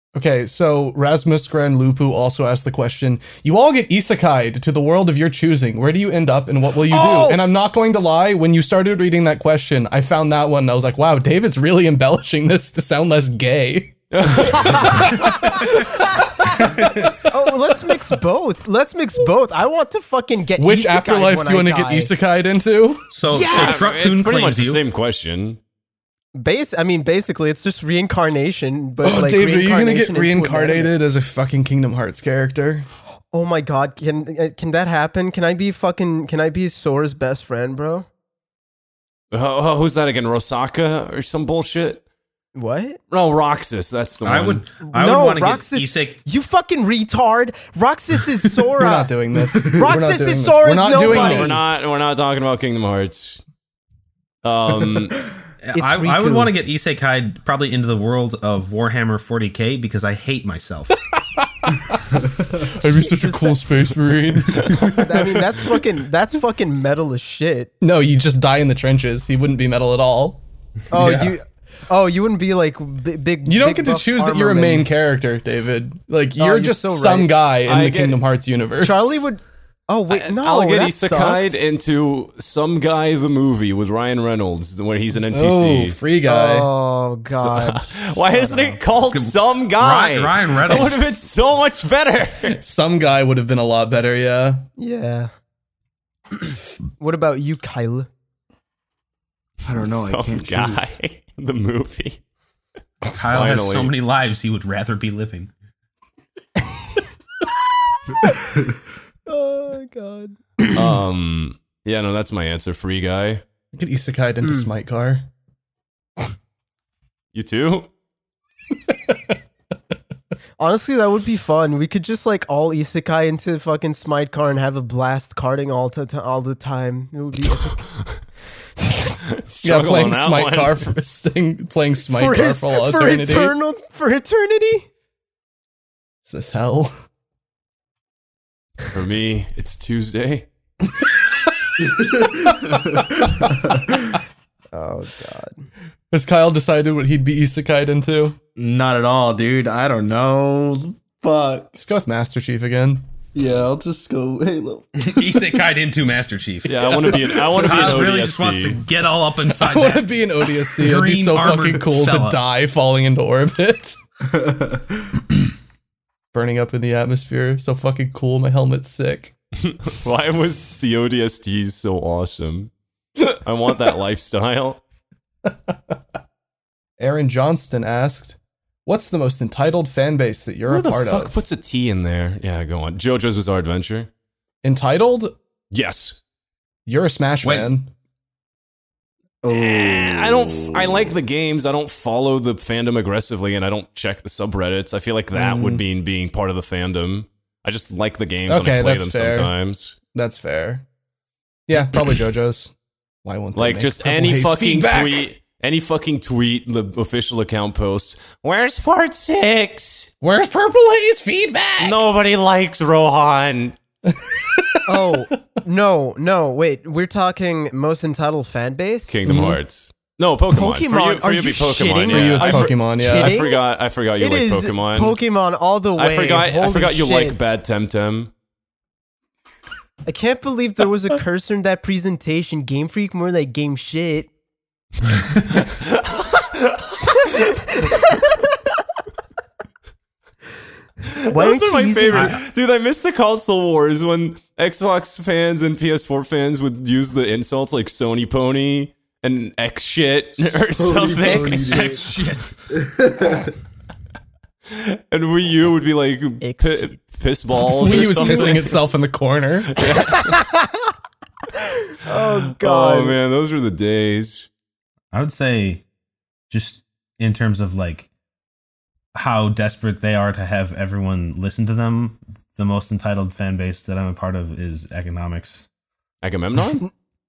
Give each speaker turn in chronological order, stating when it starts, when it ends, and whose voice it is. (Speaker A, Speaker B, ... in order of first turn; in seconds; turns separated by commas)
Speaker A: 0.1-15.9, Speaker B: 6.9-7.4, Speaker C: 14.1-15.2, Speaker B: 14.7-15.1, Speaker B: 16.8-22.1, Speaker D: 16.8-17.1, Speaker A: 20.6-23.1, Speaker D: 23.1-24.8, Speaker B: 23.3-23.9, Speaker C: 23.4-25.6, Speaker B: 26.4-30.9, Speaker A: 29.0-32.9, Speaker B: 33.3-38.1, Speaker C: 39.3-42.0, Speaker B: 42.5-43.0, Speaker C: 43.1-44.6, Speaker D: 44.2-46.2, Speaker B: 44.8-49.1, Speaker A: 48.8-51.7, Speaker B: 49.6-51.6, Speaker C: 51.0-53.4, Speaker C: 54.4-55.2, Speaker D: 55.6-61.0, Speaker B: 55.7-56.5, Speaker A: 61.4-65.2, Speaker B: 62.8-63.7, Speaker B: 64.8-67.7, Speaker A: 67.8-70.4, Speaker B: 70.9-74.9, Speaker D: 71.0-71.3, Speaker A: 73.5-79.2, Speaker B: 76.4-77.4, Speaker C: 77.7-78.2, Speaker B: 78.8-81.7, Speaker C: 80.1-86.0, Speaker A: 85.3-86.7, Speaker B: 86.2-88.8, Speaker C: 87.3-92.6, Speaker D: 89.1-91.0, Speaker A: 92.5-94.6, Speaker B: 94.8-95.3, Speaker B: 97.0-98.1, Speaker E: 99.7-100.9, Speaker C: 99.8-102.2, Speaker D: 103.1-105.5, Speaker C: 103.2-103.9, Speaker B: 109.3-110.4, Speaker C: 110.7-113.4, Speaker A: 113.7-115.3, Speaker C: 117.3-117.9, Speaker B: 120.6-127.8, Speaker B: 128.8-129.1, Speaker C: 129.4-130.9, Speaker A: 129.6-133.6, Speaker B: 132.1-134.9, Speaker A: 136.3-136.9, Speaker C: 138.9-140.5, Speaker E: 141.8-143.9, Speaker B: 144.7-145.7, Speaker A: 146.1-148.4, Speaker E: 148.6-151.8, Speaker A: 151.8-153.0, Speaker E: 153.3-154.9, Speaker D: 155.0-160.1, Speaker C: 156.7-158.8, Speaker A: 159.5-164.0, Speaker D: 160.7-162.4, Speaker E: 164.3-164.8, Speaker A: 166.3-169.3, Speaker C: 169.6-172.7, Speaker C: 173.3-174.8, Speaker A: 175.5-175.7, Speaker A: 177.0-181.4, Speaker C: 180.7-184.1, Speaker A: 184.6-185.3, Speaker C: 185.7-186.2, Speaker A: 186.9-187.9, Speaker D: 187.4-187.7, Speaker E: 189.4-191.1, Speaker C: 189.5-200.0, Speaker A: 195.3-195.8, Speaker A: 198.5-199.5, Speaker A: 200.1-200.8, Speaker A: 201.7-202.7, Speaker A: 203.2-205.3, Speaker C: 203.6-210.1, Speaker A: 210.2-212.1, Speaker C: 211.8-213.8, Speaker A: 214.1-215.2, Speaker B: 214.9-219.2, Speaker C: 219.1-225.2, Speaker A: 219.2-219.6, Speaker B: 220.5-223.6, Speaker A: 222.1-223.4, Speaker B: 224.2-227.4, Speaker C: 226.0-228.3, Speaker B: 230.1-234.3, Speaker C: 235.6-236.8, Speaker C: 241.1-252.0, Speaker B: 241.3-242.4, Speaker D: 242.1-242.4, Speaker E: 250.7-252.0, Speaker B: 251.2-252.0, Speaker D: 251.7-252.6, Speaker E: 252.7-253.5, Speaker C: 254.7-258.8, Speaker B: 256.4-256.8, Speaker A: 257.7-259.8, Speaker B: 257.9-258.6, Speaker C: 259.8-260.4, Speaker B: 259.9-260.8, Speaker B: 261.6-263.2, Speaker C: 262.1-264.5, Speaker D: 265.1-265.8, Speaker D: 266.5-268.1, Speaker D: 269.1-275.7, Speaker C: 276.2-276.9